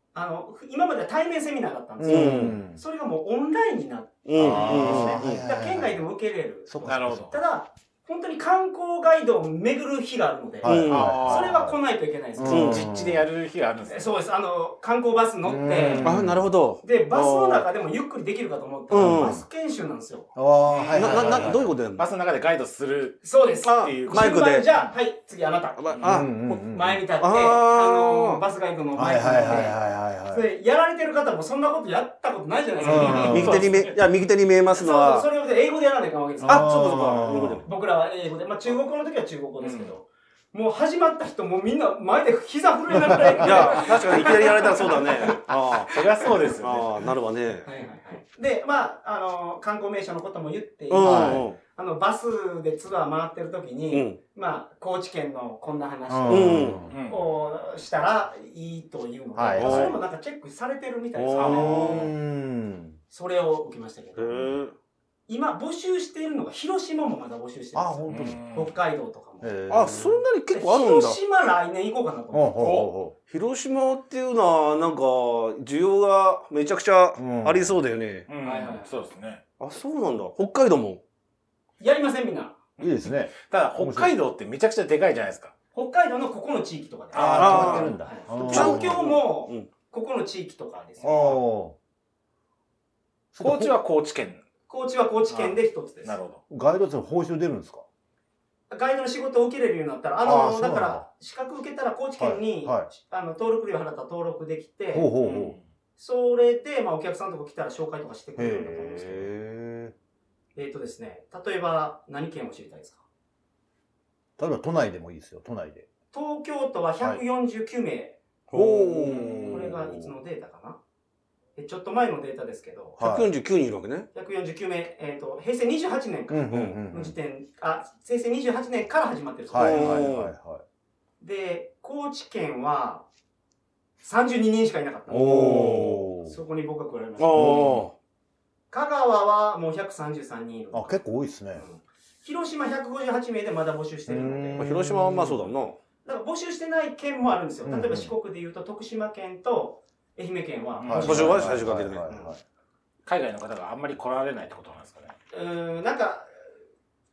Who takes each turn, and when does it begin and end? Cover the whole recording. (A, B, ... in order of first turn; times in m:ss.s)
0:00.1-0:12.8 A
0:02.0-0:02.8 B
0:02.0-0:02.6 C
0:04.2-0:05.4 C
0:04.4-0:06.0 B
0:06.7-0:07.3 B
0:06.8-0:07.4 D
0:10.6-0:11.8 B
0:10.6-0:11.2 C
0:10.9-0:11.6 D
0:12.4-0:13.2 B
0:12.5-0:12.9 C
0:12.5-0:14.1 D
0:13.9-0:16.1 A
0:15.4-0:16.4 B
0:16.0-0:17.6 C
0:16.8-0:20.3 A
0:18.9-0:19.4 C
0:18.9-0:19.4 B
0:20.3-0:21.7 B
0:20.7-0:24.8 D
0:20.9-0:22.0 C
0:23.2-0:29.8 A
0:23.6-0:24.7 C
0:25.8-0:26.3 C
0:26.0-0:27.0 B
0:27.2-0:28.4 C
0:28.9-0:30.4 B
0:30.3-0:33.6 A
0:32.8-0:34.0 D
0:32.8-0:33.7 B
0:33.2-0:35.3 C
0:34.7-0:36.8 A
0:36.4-0:37.6 B
0:36.4-0:37.6 C
0:37.6-0:45.4 A
0:39.6-0:39.9 D
0:43.1-0:43.6 B
0:43.4-0:47.7 C
0:45.9-0:47.0 D
0:47.6-1:02.0 A
0:50.9-0:51.6 C
0:51.0-0:51.5 B
0:53.9-0:54.2 C
0:56.1-0:57.0 B
0:56.3-0:56.8 C
0:56.9-0:57.2 D
0:59.4-1:00.0 B
0:59.6-1:00.0 C
1:01.2-1:02.1 C
1:01.4-1:01.8 D
1:01.4-1:03.0 B
1:03.1-1:04.5 A
1:04.2-1:04.7 C
1:05.3-1:09.9 A
1:07.7-1:08.4 B
1:08.1-1:08.7 D
1:09.4-1:10.2 B
1:09.7-1:11.2 C
1:10.5-1:12.7 A
1:12.3-1:13.1 B
1:12.6-1:12.9 D
1:13.3-1:18.3 C
1:17.2-1:17.8 B
1:18.3-1:19.4 D
1:18.4-1:18.9 A
1:19.6-1:21.0 C
1:21.8-1:22.6 A
1:22.8-1:24.2 B
1:22.8-1:25.5 D
1:25.7-1:31.4 A
1:27.1-1:27.9 D
1:27.1-1:29.1 B
1:27.3-1:29.7 C
1:31.0-1:31.8 B
1:33.3-1:33.7 B
1:33.4-1:34.4 D
1:34.7-1:36.1 A
1:36.0-1:36.4 D
1:36.5-1:37.8 B
1:38.7-1:45.3 A
1:40.2-1:41.0 B
1:42.2-1:42.9 B
1:44.9-1:45.6 B
1:45.2-1:45.6 D
1:46.0-1:49.3 A
1:48.4-1:49.9 B
1:50.6-1:53.0 A
1:54.4-1:55.9 B
1:56.1-1:58.2 A
1:58.5-1:59.7 C
1:58.5-2:00.1 B
1:59.4-2:00.8 A
2:01.6-2:03.0 A
2:03.0-2:03.3 B
2:03.0-2:04.1 C
2:04.1-2:10.1 A
2:06.3-2:07.1 B
2:09.5-2:10.6 B
2:09.5-2:10.3 C
2:11.2-2:13.0 A
2:14.0-2:17.8 A
2:15.1-2:16.3 B
2:15.1-2:16.0 C
2:17.2-2:17.9 C
2:17.3-2:17.9 B
2:18.7-2:21.0 A
2:20.7-2:21.6 B
2:21.6-2:24.6 A
2:24.1-2:25.5 B
2:24.6-2:25.8 C
2:26.0-2:31.6 A
2:27.6-2:28.1 B
2:30.8-2:31.2 D
2:30.8-2:32.4 B
2:31.0-2:32.1 C
2:33.0-2:35.1 D
2:35.3-2:36.3 A